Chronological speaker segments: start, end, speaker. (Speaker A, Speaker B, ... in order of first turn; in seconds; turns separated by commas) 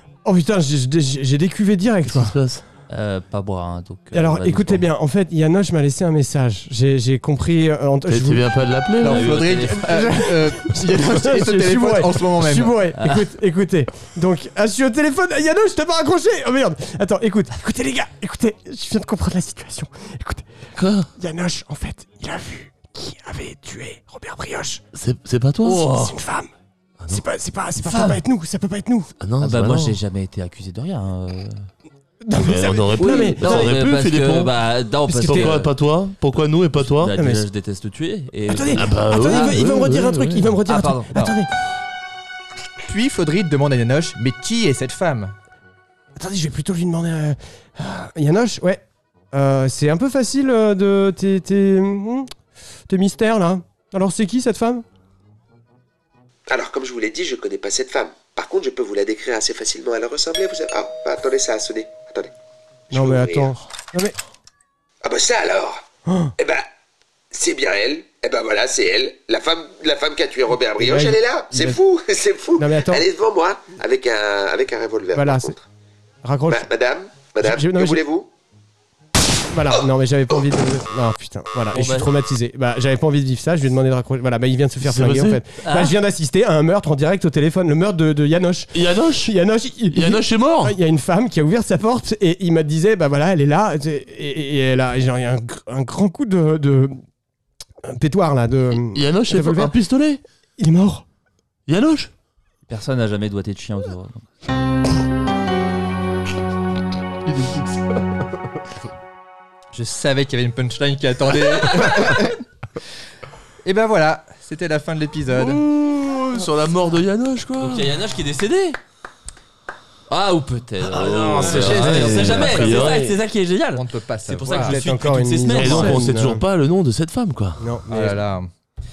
Speaker A: 0.2-2.4, Speaker B: 2.1-2.6, Speaker C: 2.9-4.9, Speaker A: 4.1-8.5, Speaker B: 8.1-9.6, Speaker D: 9.0-12.8, Speaker C: 9.0-10.2, Speaker A: 9.7-20.5, Speaker C: 13.0-13.3, Speaker B: 20.8-21.1, Speaker A: 21.2-24.8, Speaker B: 24.9-26.2, Speaker A: 25.6-26.5, Speaker A: 27.1-29.1, Speaker C: 27.8-28.2, Speaker B: 29.2-30.0, Speaker C: 29.4-31.7, Speaker A: 32.2-33.8, Speaker B: 32.4-34.5, Speaker C: 33.0-35.7, Speaker A: 35.1-35.7, Speaker B: 35.1-37.1, Speaker C: 37.0-40.0, Speaker A: 37.1-37.5, Speaker A: 38.5-41.5, Speaker B: 38.8-40.6, Speaker C: 40.6-41.3, Speaker D: 42.9-45.4, Speaker A: 46.2-52.3, Speaker A: 52.9-54.9, Speaker E: 56.5-62.3, Speaker E: 62.9-63.5, Speaker A: 62.9-64.2, Speaker E: 65.0-65.8, Speaker A: 66.1-66.3, Speaker E: 66.4-66.7, Speaker E: 67.3-75.7, Speaker A: 70.8-71.8, Speaker A: 72.6-73.0, Speaker A: 75.1-75.6, Speaker A: 76.2-76.7, Speaker E: 76.5-78.3, Speaker A: 77.4-78.0, Speaker A: 79.5-97.0, Speaker C: 81.7-82.1, Speaker B: 84.8-85.4, Speaker C: 85.6-86.0, Speaker B: 88.7-89.3, Speaker B: 89.9-90.8, Speaker A: 97.8-99.8, Speaker B: 98.9-100.2, Speaker A: 100.6-101.0, Speaker B: 101.7-102.1, Speaker C: 102.7-104.3, Speaker B: 107.3-108.2, Speaker D: 109.7-112.4, Speaker D: 113.6-115.6, Speaker B: 115.3-117.9, Speaker C: 117.6-118.8, Speaker C: 120.1-126.1, Speaker B: 120.8-123.2, Speaker D: 121.4-122.9, Speaker D: 123.7-125.0, Speaker A: 124.5-126.5, Speaker B: 125.5-127.6, Speaker A: 127.6-128.2, Speaker D: 127.9-128.5